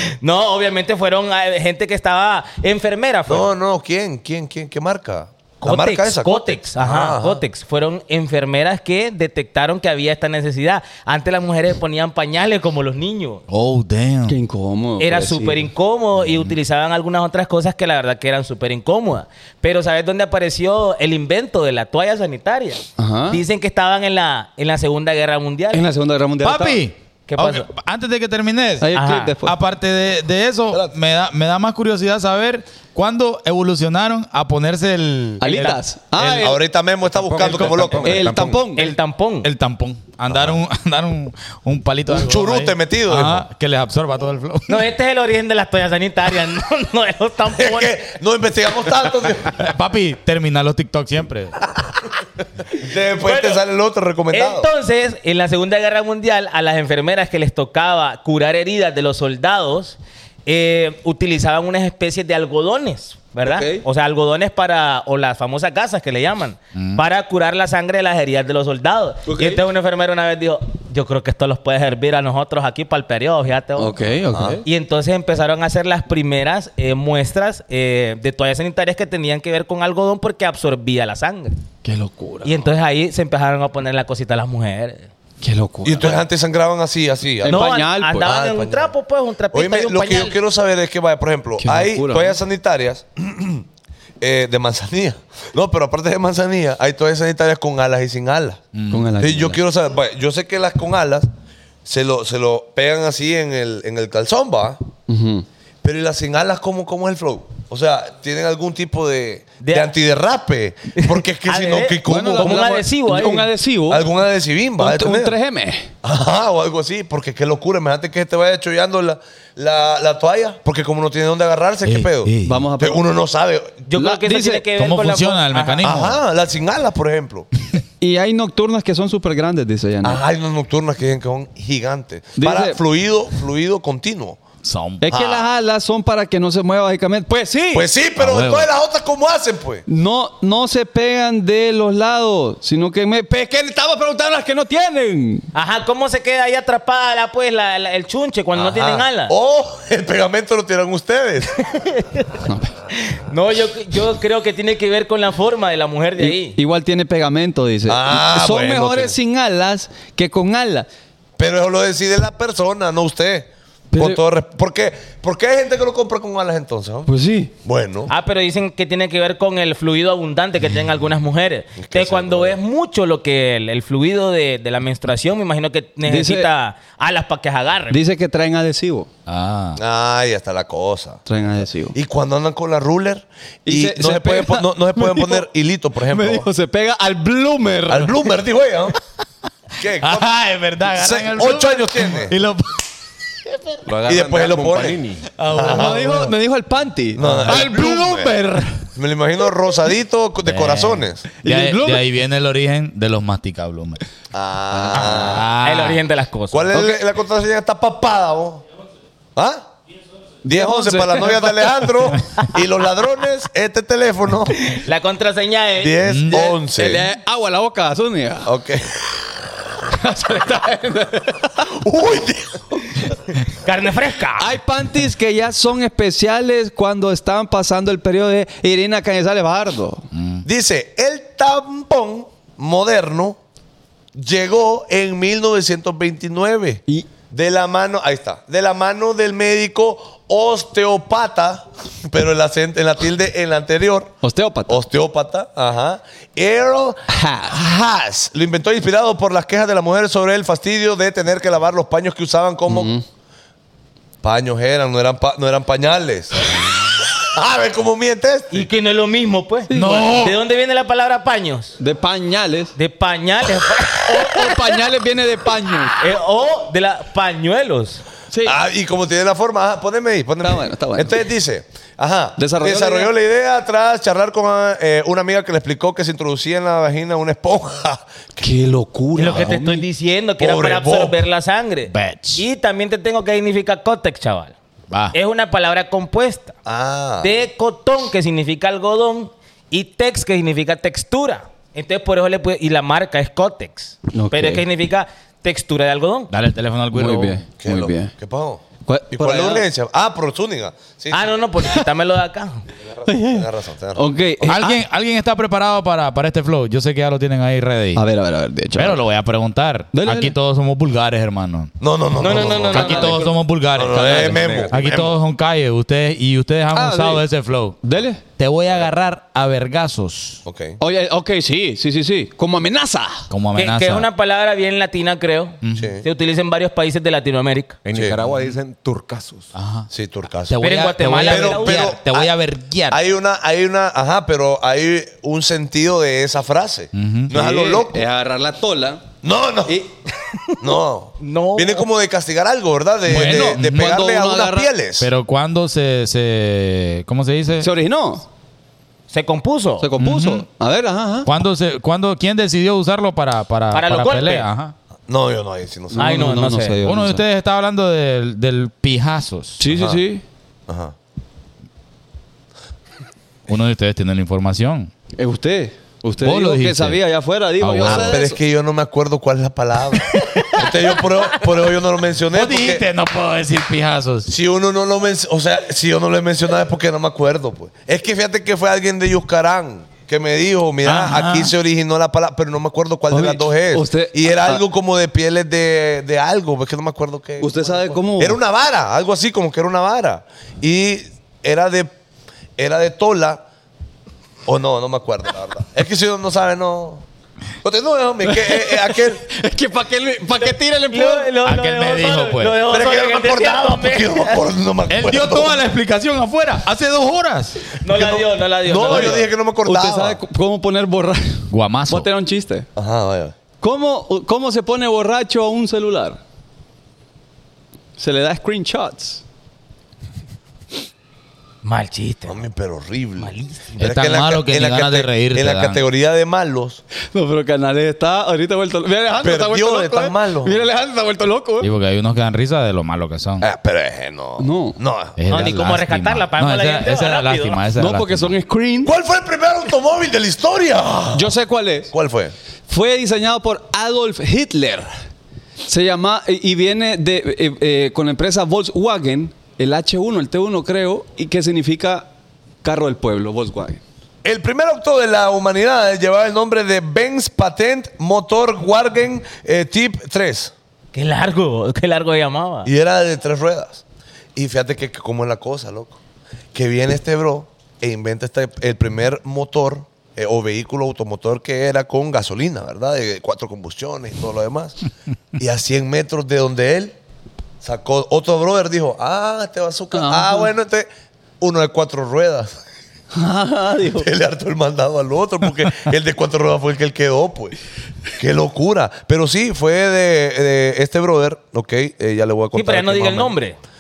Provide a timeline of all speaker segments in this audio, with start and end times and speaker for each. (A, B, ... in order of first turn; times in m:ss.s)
0:00.2-0:03.5 A
0:03.3-0:07.4 B
0:05.6-0:13.4 A
0:13.5-0:14.4 C
0:14.3-0:15.7 D
0:15.0-0:25.8 A
0:16.2-0:16.5 C
0:23.0-0:23.4 D
0:25.7-0:26.8 D
0:26.4-0:28.9 C
0:27.3-0:27.6 A
0:28.8-0:29.5 D
0:28.9-0:29.3 A
0:29.4-0:36.4 C
0:35.4-0:36.6 D
0:36.2-0:38.6 B
0:37.4-0:38.2 C
0:37.4-0:38.7 E
0:37.5-0:38.9 D
0:38.8-0:39.5 A
0:39.4-0:44.9 C
0:42.1-0:43.4 B
0:44.7-0:48.0 A
0:47.5-0:49.6 B
0:49.6-0:51.6 C
0:52.8-0:54.7 B
0:53.2-0:53.6 A
0:54.3-1:14.0 A
1:03.4-1:03.8 D
1:06.7-1:07.0 C
1:09.2-1:09.6 D
1:13.8-1:14.6 D
1:14.3-1:14.6 B
1:14.6-1:21.5 A
1:21.8-1:22.6 D
1:22.4-1:25.1 A
1:25.4-1:26.2 D
1:25.8-1:28.9 B
1:27.4-1:28.3 D
1:27.4-1:30.4 A
1:29.5-1:33.6 B
1:31.6-1:32.4 D
1:34.2-1:38.6 B
1:38.7-1:39.1 C
1:38.9-1:39.6 D
1:39.2-1:41.3 B
1:41.8-1:44.8 B
1:45.1-1:45.4 D
1:45.8-1:52.7 B
1:49.6-1:50.0 A
1:51.0-1:53.5 A
1:52.0-1:54.1 D
1:53.9-1:55.4 B
1:54.8-1:55.9 D
1:56.0-2:03.8 B
2:01.8-2:02.7 C
2:02.4-2:03.1 D
2:03.9-2:05.9 A
2:03.9-2:04.6 D
2:04.8-2:06.2 C
2:05.8-2:07.5 B
2:08.0-2:10.2 D
2:10.0-2:14.4 B
2:12.4-2:12.8 D
2:14.6-2:15.1 C
2:15.0-2:18.6 D
2:17.7-2:19.8 B
2:19.9-2:25.5 D
2:25.5-2:29.3 A
2:28.5-2:31.5 B
2:31.6-2:32.3 A
2:32.4-2:32.7 D
2:32.9-2:36.6 A
2:36.2-2:40.9 D
2:37.9-2:39.2 B
2:41.4-2:47.1 B
2:43.9-2:44.2 D
2:47.0-2:47.5 D
2:47.6-2:48.1 B
2:48.1-2:58.0 A
2:51.8-2:52.6 B
2:56.0-2:56.5 D
2:57.9-2:59.1 D
2:59.3-2:59.8 C
2:59.8-3:01.2 B
3:01.2-3:02.0 D
3:01.9-3:06.5 B
3:03.6-3:05.5 D
3:06.0-3:08.4 D
3:07.9-3:08.9 B
3:09.8-3:10.3 B
3:10.0-3:12.8 C
3:10.9-3:12.3 B
3:13.8-3:15.3 E
3:14.0-3:16.3 B
3:15.4-3:16.1 C
3:15.6-3:18.8 D
3:17.2-3:18.3 B
3:17.5-3:17.7 C
3:19.0-3:21.2 B
3:20.4-3:24.0 C
3:21.4-3:22.0 D
3:24.3-3:25.4 B
3:24.7-3:25.2 D
3:25.0-3:26.0 C
3:25.6-3:26.7 A
3:26.5-3:28.6 B
3:29.4-3:29.6 B
3:30.4-3:34.5 B
3:30.5-3:31.9 D
3:34.6-3:36.0 A
3:35.8-3:37.1 B
3:36.0-3:36.5 C
3:36.3-3:38.5 D
3:38.4-3:39.0 B
3:39.9-3:41.6 D
3:41.8-3:42.6 B
3:43.6-3:44.5 A
3:44.4-3:50.0 D
3:50.1-3:50.4 C
3:50.4-3:53.4 B
3:54.2-4:04.1 B
4:04.2-4:04.8 D
4:04.7-4:12.9 B
4:07.1-4:07.6 D
4:12.7-4:13.0 D
4:14.2-4:16.3 B
4:17.3-4:18.7 B
4:18.5-4:21.7 A
4:19.7-4:20.2 D
4:19.7-4:20.4 C
4:21.8-4:22.7 D
4:22.7-4:24.7 A
4:24.0-4:26.0 D
4:26.0-4:28.0 A
4:28.3-4:28.6 D
4:28.4-4:38.5 B
4:30.4-4:31.2 D
4:32.4-4:33.1 D
4:38.4-4:39.8 D
4:39.1-4:44.5 A
4:40.4-4:41.2 B
4:41.9-4:42.4 C
4:45.1-4:46.5 A
4:46.6-4:47.3 B
4:47.2-4:56.3 A
4:54.1-4:54.6 D
4:56.3-4:57.4 C
4:56.9-4:58.1 D
4:57.6-5:01.3 B
4:58.8-4:59.6 D
5:01.1-5:02.6 A
5:03.0-5:04.1 B
5:03.0-5:04.8 D
5:04.4-5:08.0 C
5:08.0-5:09.0 D
5:08.7-5:11.7 C
5:09.9-5:10.3 D
5:11.8-5:13.0 B
5:12.2-5:13.2 A
5:12.3-5:17.8 C
5:12.6-5:13.3 D
5:13.8-5:15.1 B
5:13.9-5:14.7 D
5:16.7-5:17.2 D
5:17.8-5:18.2 D
5:18.3-5:20.4 C
5:20.4-5:20.8 B
5:20.8-5:23.2 D
5:23.3-5:24.1 C
5:23.6-5:27.8 A
5:25.6-5:25.9 C
5:25.8-5:26.0 B
5:27.8-5:29.5 E
5:27.9-5:28.2 B
5:28.2-5:28.6 C
5:29.5-5:29.9 C
5:29.9-5:30.6 B
5:30.5-5:33.0 C
5:30.6-5:31.9 A
5:31.2-5:32.3 B
5:32.9-5:38.0 B
5:36.9-5:37.4 C
5:37.3-5:39.1 D
5:39.2-5:39.8 B
5:39.6-5:39.9 D
5:40.6-5:45.1 B
5:40.6-5:41.9 A
5:43.1-5:44.7 D
5:43.1-5:43.9 C
5:45.0-5:47.7 C
5:47.6-5:48.2 D
5:49.1-5:49.9 A
5:49.8-5:51.3 D
5:50.0-5:50.4 C
5:51.2-5:54.7 C
5:53.7-5:54.5 A
5:55.1-5:56.2 B
5:55.9-5:57.2 D
5:56.0-5:56.8 A
5:56.8-5:59.6 C
5:59.6-6:00.2 D
5:59.7-6:00.0 B
6:00.7-6:00.9 B
6:03.5-6:04.9 C
6:05.2-6:08.4 D
6:06.2-6:07.0 C
6:07.6-6:08.2 C
6:07.8-6:12.8 B
6:12.3-6:14.3 C
6:14.2-6:31.9 B
6:20.8-6:21.5 C
6:23.1-6:24.6 D
6:27.4-6:28.4 D
6:32.6-6:33.4 B
6:34.5-6:37.0 B
6:37.6-6:39.2 B
6:38.2-6:41.3 D
6:40.4-6:44.4 A
6:41.4-6:42.6 C
6:42.7-6:45.6 B
6:44.9-6:47.7 C
6:47.8-6:49.3 A
6:47.9-6:50.2 B
6:48.8-6:52.7 D
6:51.5-6:52.1 C
6:52.8-6:53.3 B
6:53.6-6:56.2 D
6:58.0-6:59.2 D
7:01.6-7:02.4 A
7:02.2-7:06.8 B
7:03.2-7:03.8 A
7:03.8-7:05.8 C
7:07.1-7:11.7 D
7:09.2-7:10.6 B
7:11.6-7:13.5 C
7:13.4-7:15.5 B
7:14.4-7:14.8 D
7:15.2-7:18.4 C
7:15.3-7:17.6 A
7:17.8-7:18.9 D
7:18.8-7:21.3 B
7:21.1-7:21.9 D
7:21.9-7:22.3 B
7:22.7-7:24.9 D
7:25.6-7:32.1 D
7:32.6-7:33.8 D
7:34.2-7:40.5 B
7:40.9-7:42.7 A
7:42.6-7:43.8 B
7:44.4-7:46.0 B
7:46.5-7:54.7 B
7:55.4-7:56.9 B
7:57.6-8:00.9 B
7:59.9-8:00.5 D
8:01.4-8:02.6 B
8:03.1-8:04.1 D
8:04.0-8:07.5 B
8:08.2-8:13.3 B
8:12.5-8:13.6 A